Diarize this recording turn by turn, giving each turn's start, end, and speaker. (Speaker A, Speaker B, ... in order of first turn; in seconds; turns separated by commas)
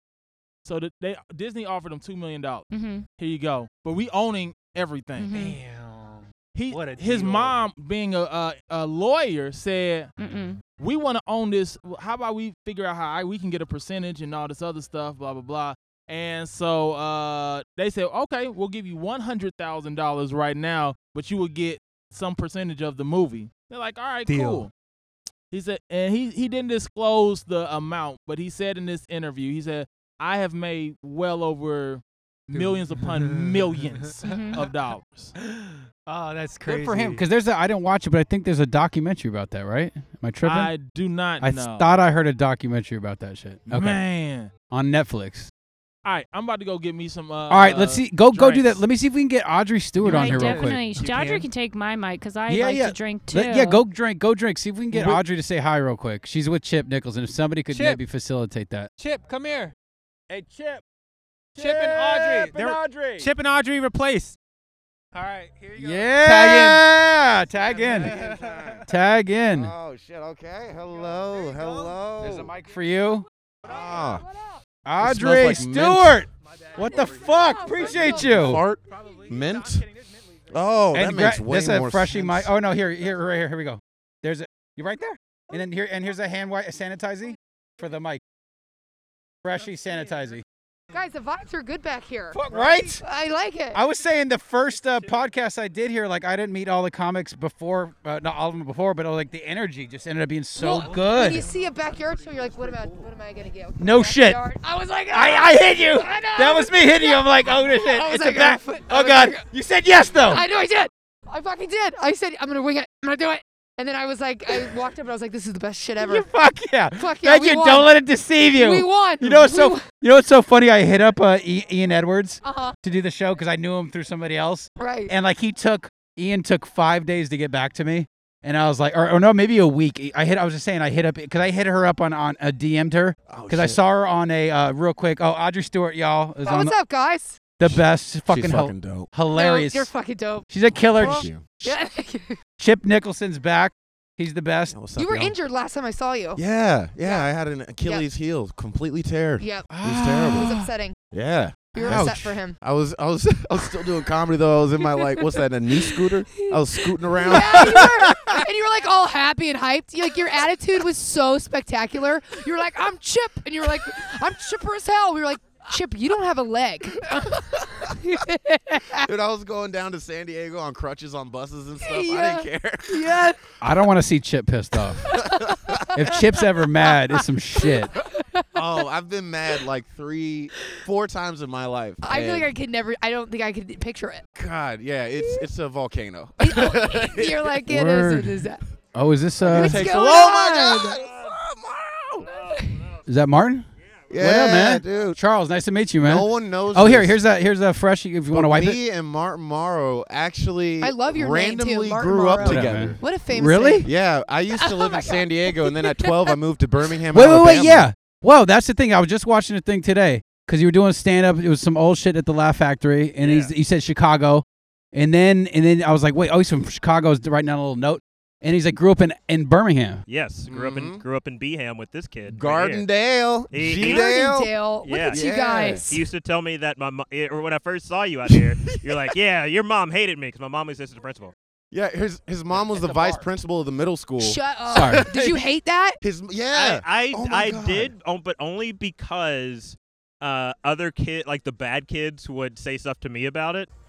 Speaker A: 0.6-5.3, Speaker B: 2.7-3.1, Speaker B: 5.2-5.6, Speaker C: 5.3-7.6, Speaker A: 6.5-10.1, Speaker B: 10.2-10.6, Speaker A: 10.8-24.7, Speaker C: 24.3-24.7, Speaker A: 25.5-35.3, Speaker C: 32.5-34.6, Speaker B: 34.2-34.6, Speaker C: 35.4-37.2, Speaker D: 36.7-40.7, Speaker A: 40.4-41.9, Speaker D: 41.4-44.0, Speaker A: 43.7-44.5, Speaker D: 44.7-45.5, Speaker A: 46.0-48.8, Speaker D: 47.5-50.8, Speaker C: 50.0-51.5, Speaker B: 50.0-53.8, Speaker D: 52.5-58.9, Speaker C: 57.7-58.0, Speaker C: 59.0-59.7, Speaker D: 60.3-60.8, Speaker D: 61.6-63.3, Speaker C: 61.6-64.4, Speaker C: 65.1-66.8, Speaker D: 65.8-68.2, Speaker C: 67.6-68.8, Speaker E: 68.0-68.8, Speaker D: 68.8-69.7, Speaker E: 69.5-72.5, Speaker C: 71.4-72.0, Speaker D: 72.2-73.3, Speaker E: 73.7-74.2, Speaker D: 74.8-78.7, Speaker E: 75.0-76.2, Speaker C: 76.5-80.5, Speaker F: 77.5-78.3, Speaker E: 78.2-79.9, Speaker E: 80.5-82.5, Speaker D: 80.9-88.2, Speaker D: 89.4-90.4, Speaker F: 90.9-93.8, Speaker D: 92.3-93.0, Speaker D: 93.7-101.5, Speaker F: 100.6-109.5, Speaker D: 103.8-104.4, Speaker D: 105.1-110.4, Speaker F: 110.2-116.3, Speaker D: 116.0-136.8, Speaker F: 117.0-117.9, Speaker F: 118.5-119.9, Speaker F: 122.4-122.8, Speaker F: 124.8-125.1, Speaker E: 133.3-133.8, Speaker F: 136.4-137.6, Speaker D: 137.6-139.9, Speaker E: 137.6-139.1, Speaker F: 139.3-142.4, Speaker D: 140.5-141.3, Speaker E: 140.9-141.5, Speaker D: 142.6-144.8, Speaker E: 144.7-145.3, Speaker F: 144.9-146.4, Speaker E: 146.4-150.6, Speaker F: 147.0-147.3, Speaker F: 149.4-151.0, Speaker D: 149.7-150.7, Speaker E: 151.1-157.9, Speaker F: 151.7-152.6, Speaker D: 151.8-152.3, Speaker F: 154.8-169.1, Speaker E: 169.1-173.2, Speaker F: 171.8-173.4, Speaker D: 173.6-175.1, Speaker F: 175.0-178.8, Speaker E: 175.2-175.9, Speaker D: 175.9-177.9, Speaker E: 178.6-182.5, Speaker F: 182.0-184.2, Speaker E: 184.4-187.6, Speaker F: 185.2-185.5, Speaker F: 186.4-188.6, Speaker D: 187.7-189.9, Speaker E: 189.4-192.3, Speaker F: 189.5-191.0, Speaker F: 192.4-192.9, Speaker D: 193.1-198.8, Speaker E: 194.1-195.2, Speaker E: 196.0-197.2, Speaker E: 198.3-203.0, Speaker F: 200.8-203.9, Speaker D: 202.4-203.9, Speaker E: 203.8-207.9, Speaker F: 204.5-206.4, Speaker D: 207.1-220.0, Speaker G: 213.2-213.5, Speaker G: 220.1-222.9, Speaker E: 220.5-221.0, Speaker E: 222.3-224.5, Speaker G: 223.5-224.1, Speaker F: 223.7-226.0, Speaker G: 224.8-225.3, Speaker E: 225.1-225.9, Speaker G: 225.9-231.3, Speaker E: 228.3-229.1, Speaker E: 231.7-235.4, Speaker G: 232.8-233.2, Speaker F: 234.2-236.0, Speaker D: 234.7-235.1, Speaker E: 236.0-237.9, Speaker G: 236.5-243.7